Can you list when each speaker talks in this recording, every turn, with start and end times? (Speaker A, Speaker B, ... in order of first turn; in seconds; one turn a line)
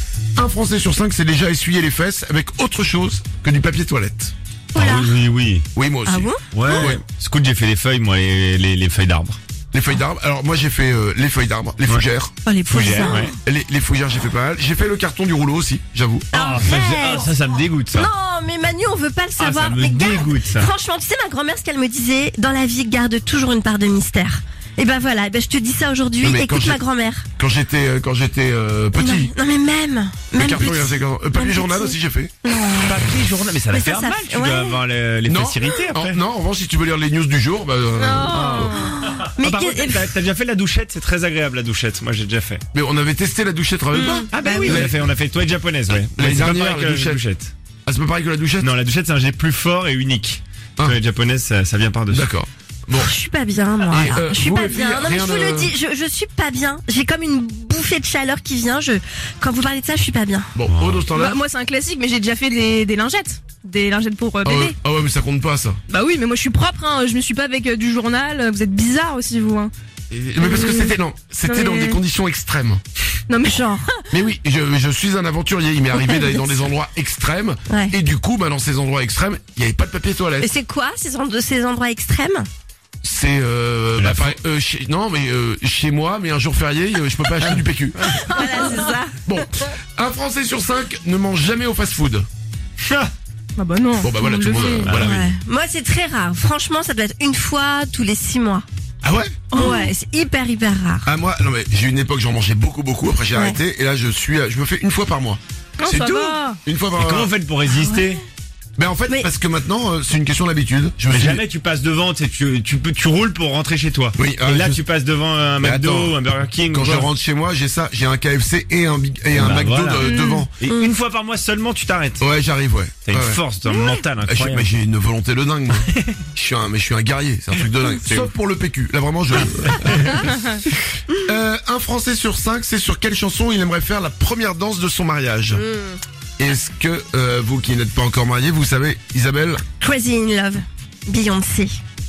Speaker A: 0.3-4.3
Speaker B: 4.7-5.1
Speaker C: 4.7-5.7
Speaker A: 5.7-7.0
Speaker B: 6.0-6.4
Speaker C: 6.5-9.4
Speaker A: 9.7-12.4
Speaker B: 12.4-13.3
Speaker C: 12.7-13.3
Speaker A: 13.4-16.3
Speaker B: 16.3-17.3
Speaker C: 16.3-18.1
Speaker B: 17.9-27.2
Speaker C: 19.4-20.7
Speaker A: 26.2-26.8
Speaker A: 27.4-29.3
Speaker B: 28.9-33.0
Speaker A: 30.3-32.3
Speaker C: 32.8-36.2
Speaker B: 33.7-34.8
Speaker A: 35.2-38.7
Speaker D: 38.0-38.9
Speaker B: 38.3-40.1
Speaker C: 38.4-42.6
Speaker A: 42.7-45.0
Speaker B: 43.9-44.3
Speaker C: 44.3-47.5
Speaker A: 46.1-47.2
Speaker A: 47.9-48.7
Speaker C: 48.6-52.3
Speaker A: 52.1-53.1
Speaker B: 53.0-60.5
Speaker A: 53.9-55.7
Speaker A: 60.5-61.4
Speaker C: 60.7-61.0
Speaker D: 61.1-64.7
Speaker A: 64.4-65.8
Speaker D: 65.9-69.7
Speaker A: 70.1-72.8
Speaker D: 70.4-70.9
Speaker D: 71.5-72.0
Speaker D: 73.3-74.0
Speaker A: 74.1-80.5
Speaker B: 75.9-76.6
Speaker B: 77.7-77.9
Speaker B: 80.4-82.5
Speaker A: 83.0-88.2
Speaker C: 84.0-84.3
Speaker B: 88.0-89.2
Speaker D: 88.3-89.0
Speaker A: 89.2-92.3
Speaker C: 92.8-93.1
Speaker D: 93.6-95.0
Speaker A: 94.0-95.3
Speaker C: 94.8-95.1
Speaker B: 95.0-98.6
Speaker A: 99.0-99.4
Speaker B: 99.5-101.1
Speaker D: 99.5-99.9
Speaker A: 101.0-107.3
Speaker D: 105.8-106.6
Speaker C: 107.0-108.2
Speaker B: 107.7-108.1
Speaker A: 108.8-111.4
Speaker C: 111.1-117.1
Speaker A: 114.2-114.8
Speaker A: 115.6-116.2
Speaker A: 116.7-120.5
Speaker C: 119.3-122.2
Speaker B: 120.0-120.9
Speaker A: 122.2-123.4
Speaker C: 123.0-124.7
Speaker A: 124.2-130.3
Speaker C: 129.7-130.2
Speaker A: 131.2-135.6
Speaker B: 135.5-136.0
Speaker A: 136.4-139.6
Speaker B: 139.8-141.8